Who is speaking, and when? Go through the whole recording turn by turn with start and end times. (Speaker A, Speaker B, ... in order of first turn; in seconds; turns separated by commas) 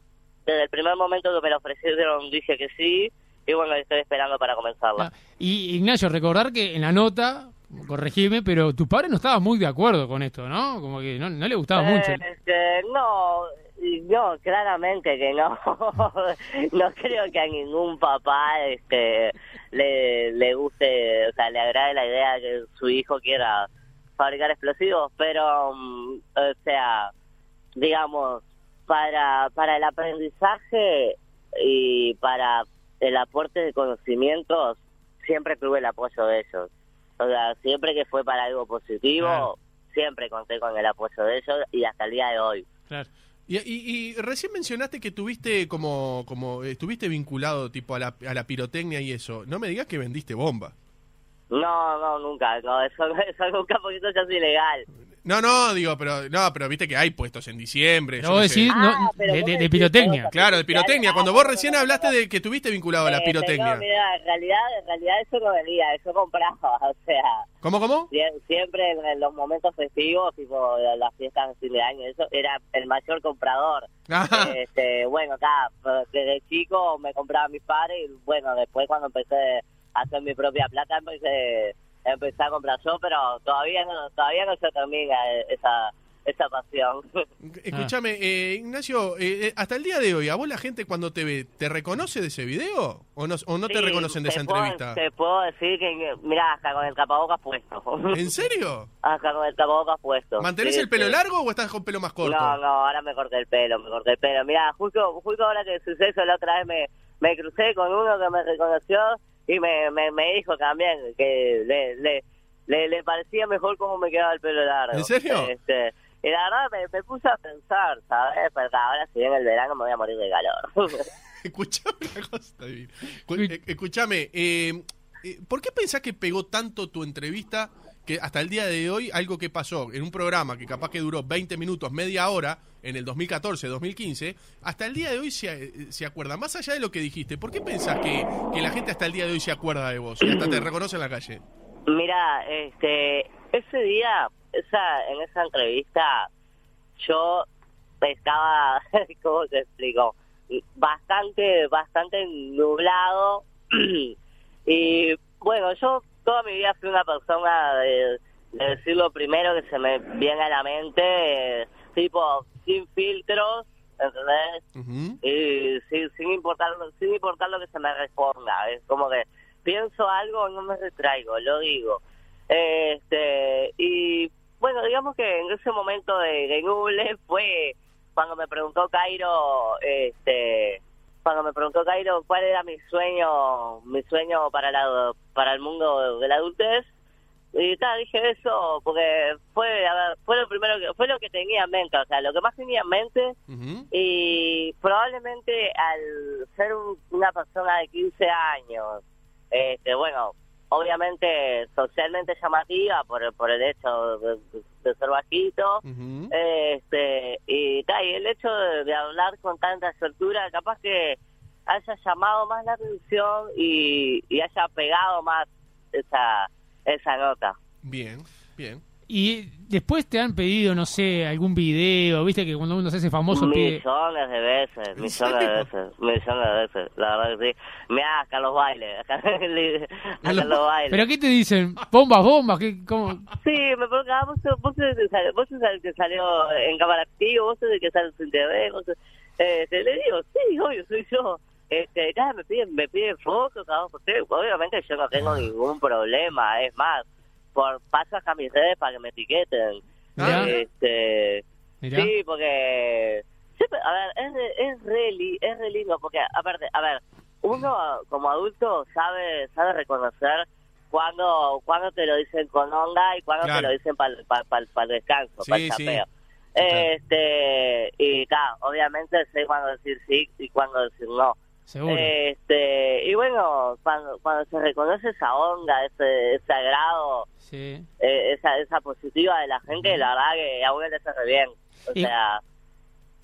Speaker A: 0.5-5.1, Speaker B: 5.0-12.2, Speaker A: 11.8-27.1, Speaker A: 27.8-42.6, Speaker B: 39.2-39.5, Speaker C: 43.5-50.7, Speaker A: 51.5-54.9, Speaker C: 55.2-58.7, Speaker B: 58.2-60.3, Speaker A: 58.7-62.1, Speaker C: 60.3-63.8, Speaker A: 63.0-67.4, Speaker C: 67.6-68.1, Speaker A: 68.1-87.2, Speaker C: 74.1-74.5, Speaker C: 87.4-95.0, Speaker A: 93.7-98.2, Speaker C: 98.1-98.9, Speaker A: 99.0-101.2, Speaker C: 100.4-102.6, Speaker A: 102.2-121.1, Speaker C: 114.9-115.5, Speaker C: 121.4-141.4, Speaker A: 140.2-140.7, Speaker A: 141.9-146.3, Speaker A: 147.0-147.5, Speaker A: 148.0-154.1, Speaker A: 154.7-164.6, Speaker C: 164.7-165.2, Speaker A: 165.2-186.9, Speaker A: 187.5-193.3, Speaker C: 193.5-193.9, Speaker A: 193.9-199.0, Speaker A: 199.5-217.6, Speaker C: 205.8-206.3, Speaker C: 217.8-218.8, Speaker B: 219.1-223.8, Speaker A: 223.3-231.0, Speaker C: 225.0-225.7, Speaker C: 230.2-230.6, Speaker B: 230.9-233.2, Speaker A: 233.4-277.3, Speaker B: 250.2-250.5, Speaker C: 250.2-250.6, Speaker B: 251.8-252.1, Speaker C: 263.4-263.7, Speaker C: 265.4-266.0, Speaker B: 271.7-272.1, Speaker B: 277.4-277.9, Speaker A: 278.0-282.4